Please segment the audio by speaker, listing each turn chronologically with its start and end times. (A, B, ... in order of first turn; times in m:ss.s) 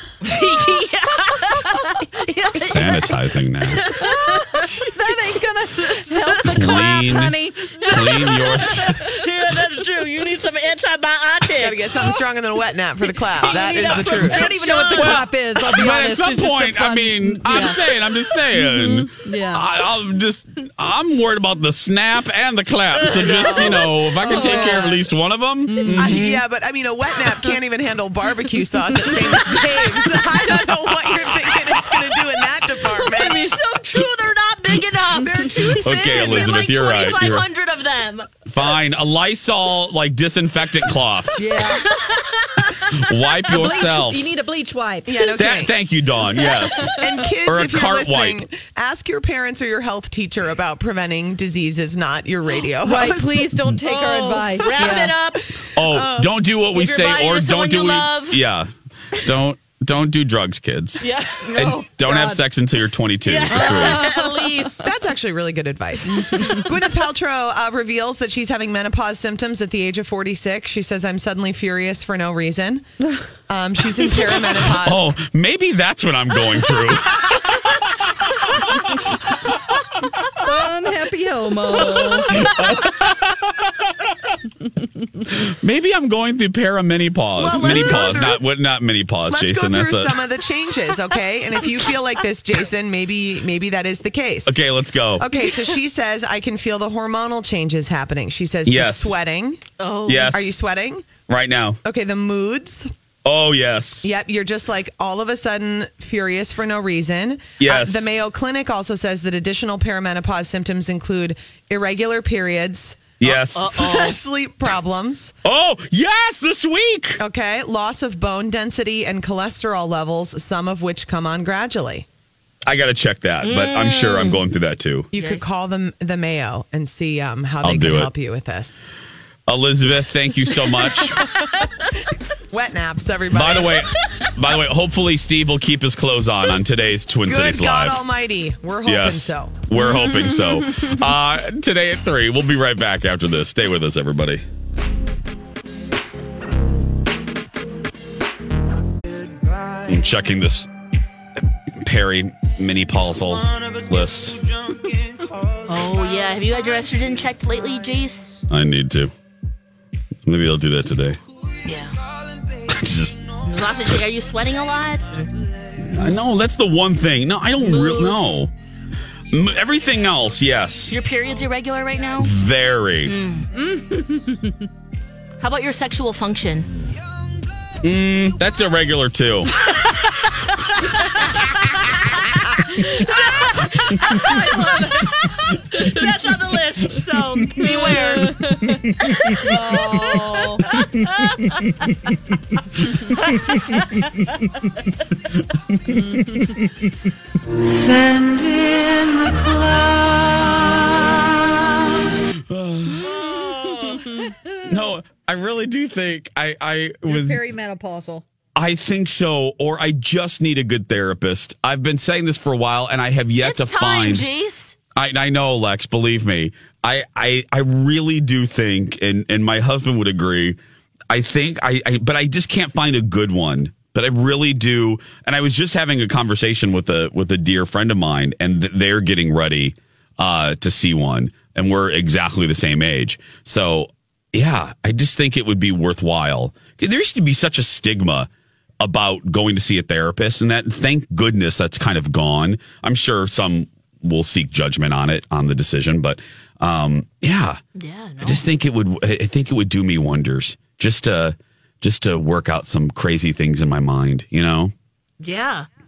0:00.2-0:03.2 A
0:02.7-0:03.8 B
0:03.7-0:04.9 A
0:04.0-0:08.9 C
0:06.3-0:06.7 A
0:06.5-0:07.4 B
0:07.9-0:09.0 B
0:07.9-0:12.2 A
0:11.5-0:14.5 D
0:13.4-0:15.3 A
0:13.7-0:17.8 C
0:14.2-0:14.4 B
0:15.0-0:26.4 B
0:18.5-0:19.7 C
0:23.1-0:24.9 D
0:23.4-0:25.0 C
0:23.4-0:23.7 A
0:25.7-0:26.2 C
0:26.0-0:33.6 D
0:29.0-0:29.4 C
0:29.4-0:30.1 A
0:31.1-0:31.8 B
0:33.0-0:38.3 A
0:35.5-0:37.4 B
0:38.5-0:41.4 B
0:41.4-0:41.8 C
0:41.6-0:43.8 A
0:42.9-0:44.3 B
0:43.5-0:45.2 C
0:45.1-0:45.8 D
0:45.4-0:48.4 B
0:46.4-0:46.9 A
0:47.0-0:53.6 D
0:52.8-0:55.2 C
0:53.8-0:58.4 A
0:54.7-0:55.0 D
0:55.8-1:04.1 B
1:01.0-1:01.5 A
1:01.4-1:02.4 C
1:03.2-1:04.9 A
1:03.5-1:04.7 C
1:04.8-1:12.8 D
1:06.1-1:06.6 C
1:13.5-1:15.2 D
1:14.7-1:17.9 B
1:20.4-1:22.4 C
1:21.8-1:23.9 B
1:25.3-1:30.2 B
1:27.4-1:28.4 D
1:27.4-1:28.3 C
1:29.3-1:34.5 D
1:34.5-1:35.2 B
1:35.2-1:39.6 D
1:38.6-1:39.2 B
1:39.8-1:40.4 A
1:40.1-1:40.6 B
1:40.3-1:41.2 D
1:41.3-1:41.8 B
1:41.8-1:42.9 D
1:43.2-1:44.0 B
1:44.0-1:55.3 D
1:47.6-1:48.1 B
1:53.2-1:53.7 B
1:53.6-1:54.2 A
1:55.4-1:57.2 B
1:57.2-2:02.1 D
2:02.7-2:05.1 B
2:03.4-2:04.4 A
2:05.1-2:08.8 D
2:05.1-2:05.4 A
2:07.6-2:08.1 B
2:09.5-2:11.2 B
2:11.1-2:11.4 A
2:12.5-2:13.9 D
2:13.3-2:18.0 B
2:17.2-2:19.6 D
2:18.8-2:24.4 B
2:20.3-2:20.9 C
2:29.8-2:30.7 B
2:31.8-2:34.4 B
2:35.6-2:38.4 A
2:38.5-2:39.1 B
2:40.2-2:41.2 B
2:41.6-2:42.0 A
2:42.7-2:43.2 B
2:43.4-2:45.4 A
2:45.8-2:48.5 B
2:47.6-2:48.4 A
2:49.3-2:51.0 B
2:50.9-2:52.3 A
2:52.2-2:53.2 B
2:53.0-2:53.5 A
2:53.6-2:54.7 C
2:55.4-2:56.7 A
2:57.8-2:59.5 B
2:59.6-3:08.4 A
3:02.8-3:05.1 C
3:07.6-3:10.9 C
3:09.1-3:10.2 A
3:10.7-3:11.7 A
3:13.2-3:14.0 A
3:15.9-3:16.6 C
3:18.5-3:18.8 A
3:22.5-3:23.3 B
3:23.0-3:24.3 C
3:24.6-3:27.4 B
3:27.1-3:28.2 C
3:28.6-3:34.3 B
3:33.4-3:34.8 A
3:35.0-3:40.6 B
3:41.1-3:58.3 B
3:58.8-4:07.6 B
4:07.8-4:08.4 A
4:08.2-4:14.7 B
4:15.2-4:15.7 A